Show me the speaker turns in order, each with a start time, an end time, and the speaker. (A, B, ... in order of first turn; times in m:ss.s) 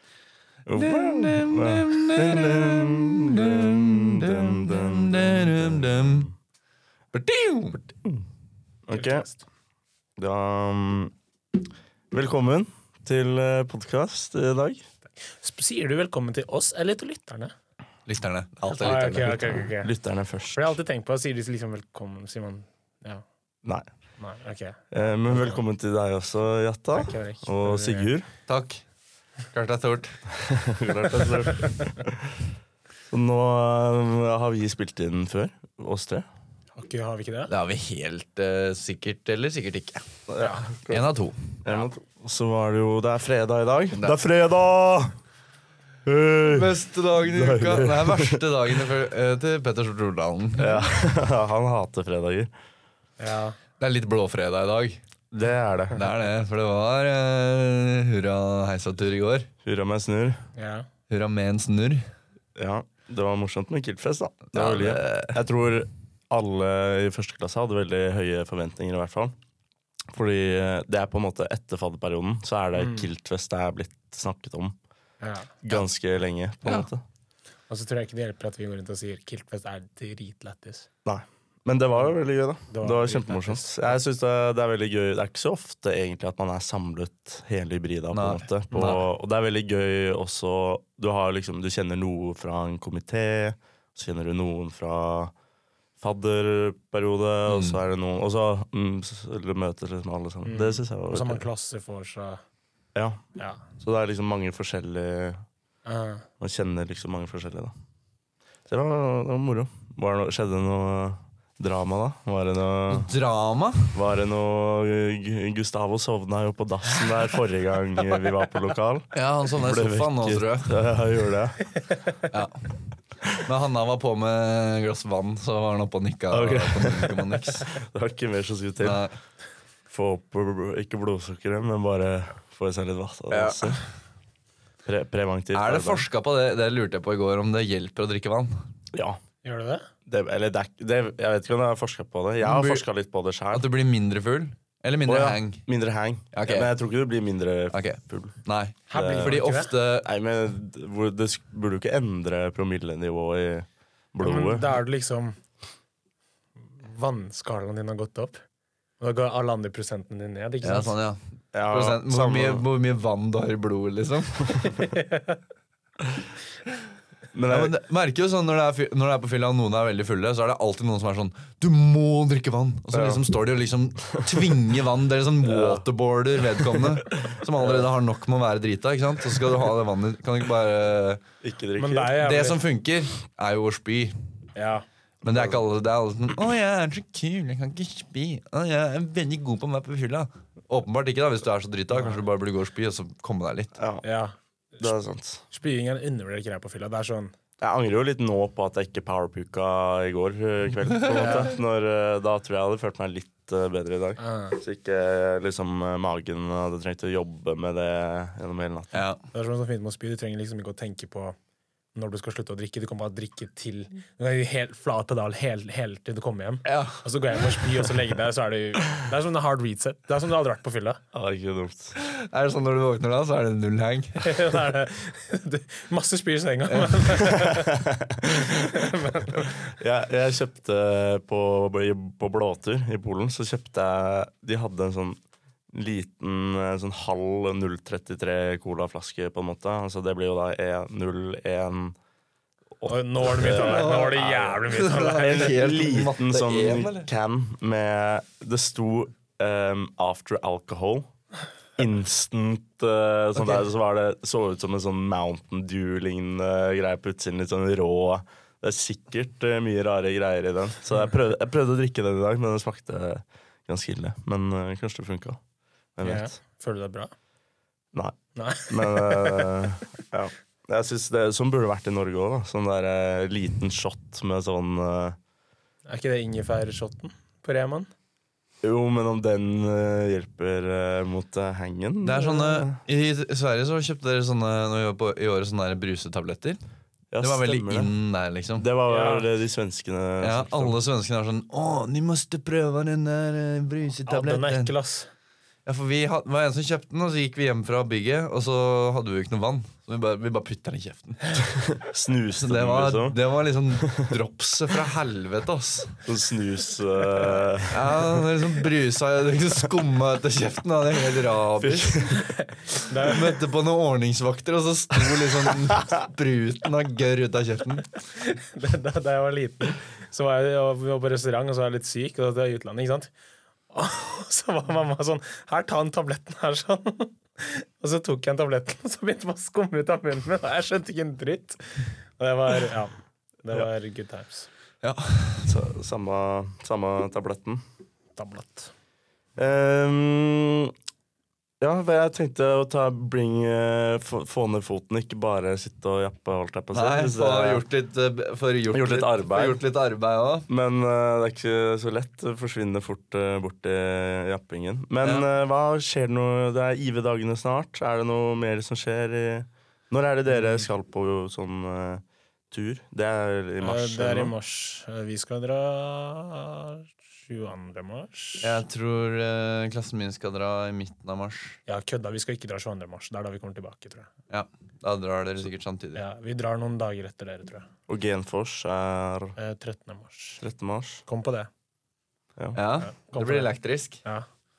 0:00.7-0:06.3 A
0:00.8-0:06.3 B
0:07.1-0:07.8 B
0:08.9-0:09.3 A
0:08.9-0:09.4 C
0:10.2-0:11.1 A
0:12.1-0:14.8 A
0:15.3-0:17.5 C
0:18.1-0:19.7 B
0:18.8-0:19.9 C
0:19.8-0:20.7 A
0:20.6-0:23.2 C
0:24.2-0:25.6 C
0:24.9-0:28.3 A
0:27.0-0:28.1 C
0:28.5-0:28.8 B
0:29.5-0:30.2 B
0:30.3-0:32.3 A
0:33.1-0:36.2 A
0:36.8-0:37.5 C
0:37.5-0:40.1 B
0:40.3-0:41.0 A
0:40.9-0:41.6 B
0:41.6-0:45.2 A
0:46.1-0:48.4 A
0:46.4-0:50.8 B
0:50.6-0:52.5 A
0:53.2-0:53.6 C
0:53.8-0:55.0 B
0:55.3-0:56.0 A
0:55.9-0:59.5 B
0:59.6-1:00.4 A
1:00.6-1:00.9 C
1:01.1-1:02.0 B
1:02.6-1:09.3 A
1:04.5-1:05.4 B
1:10.1-1:14.8 A
1:12.8-1:13.1 C
1:15.2-1:15.5 C
1:15.6-1:17.0 A
1:17.7-1:20.9 C
1:21.0-1:35.3 A
1:22.7-1:23.9 C
1:28.1-1:29.0 B
1:36.0-1:41.4 A
1:37.5-1:37.8 B
1:40.4-1:42.4 C
1:43.0-1:43.2 A
1:43.4-1:43.6 C
1:43.8-1:45.4 A
1:45.9-1:46.3 C
1:46.4-1:47.7 A
1:48.7-1:53.1 A
1:52.9-1:54.0 B
1:53.9-2:01.7 A
1:59.1-2:00.8 B
2:02.3-2:02.8 B
2:03.4-2:07.7 B
2:06.3-2:09.0 A
2:08.8-2:09.1 B
2:09.9-2:13.8 A
2:13.3-2:13.8 B
2:14.8-2:16.0 A
2:15.5-2:18.6 B
2:18.9-2:19.2 A
2:19.4-2:19.9 C
2:20.1-2:23.6 A
2:22.4-2:22.9 B
2:23.5-2:25.6 B
2:25.1-2:28.4 A
2:26.3-2:26.7 B
2:27.7-2:30.1 B
2:28.9-2:29.7 C
2:28.9-2:29.4 A
2:30.0-2:34.8 A
2:34.2-2:35.4 C
2:36.8-2:38.4 C
2:39.0-2:41.0 C
2:40.6-2:44.6 B
2:41.5-2:42.6 A
2:44.9-2:45.4 C
2:47.3-2:47.7 A
2:47.5-3:01.2 B
2:52.9-2:53.2 A
2:54.1-2:54.5 A
2:55.4-2:55.8 A
2:56.7-2:57.8 A
3:01.4-3:02.2 A
3:01.8-3:02.6 C
3:02.2-3:04.1 B
3:04.6-3:04.8 C
3:05.2-3:13.8 B
3:05.3-3:05.6 A
3:13.8-3:14.0 A
3:14.0-3:14.9 C
3:14.8-3:15.4 A
3:15.5-3:17.3 C
3:17.6-3:29.0 A
3:21.1-3:21.5 C
3:24.2-3:24.6 C
3:28.9-3:29.2 B
3:29.3-3:31.4 C
3:31.9-3:41.0 C
3:36.6-3:37.0 B
3:41.1-3:42.0 A
3:42.0-3:44.5 B
3:44.2-3:47.8 C
3:47.3-3:48.6 A
3:48.5-3:49.5 C
3:49.3-3:55.2 A
3:55.7-4:02.0 A
4:02.8-4:11.1 A
4:02.9-4:05.6 C
4:03.4-4:07.1 B
4:11.8-4:25.4 A
4:13.4-4:13.6 B
4:26.0-4:26.3 A
4:26.0-4:27.1 C
4:28.4-4:29.5 C
4:28.7-4:35.2 A
4:35.9-4:37.9 C
4:38.6-4:42.8 A
4:42.0-4:46.6 B
4:47.1-4:47.9 A
4:47.2-4:48.7 B
4:48.6-4:50.8 A
4:48.9-4:49.3 C
4:50.2-4:54.7 B
4:54.1-4:55.1 C
4:55.7-5:01.4 B
5:01.5-5:03.2 A
5:02.4-5:06.0 B
5:03.8-5:04.2 A
5:06.0-5:08.1 A
5:07.7-5:12.1 B
5:11.6-5:12.3 A
5:12.4-5:13.2 C
5:13.0-5:17.9 B
5:15.5-5:15.8 A
5:18.2-5:23.1 C
5:23.7-5:32.9 C
5:33.4-5:34.5 C
5:34.8-5:35.5 B
5:35.5-5:37.6 A
5:38.2-5:38.7 C
5:39.4-5:40.7 A
5:41.6-5:47.6 A
5:46.7-5:50.5 B
5:48.7-5:49.6 A
5:50.5-6:04.3 A
6:00.3-6:00.6 C
6:03.6-6:08.6 C
6:08.4-6:11.6 B
6:11.7-6:14.1 C
6:14.3-6:16.0 B
6:16.0-6:17.7 C
6:17.9-6:19.4 A
6:19.4-6:20.4 C
6:20.4-6:21.0 A
6:21.1-6:21.5 C
6:22.6-6:24.0 B
6:22.8-6:23.5 C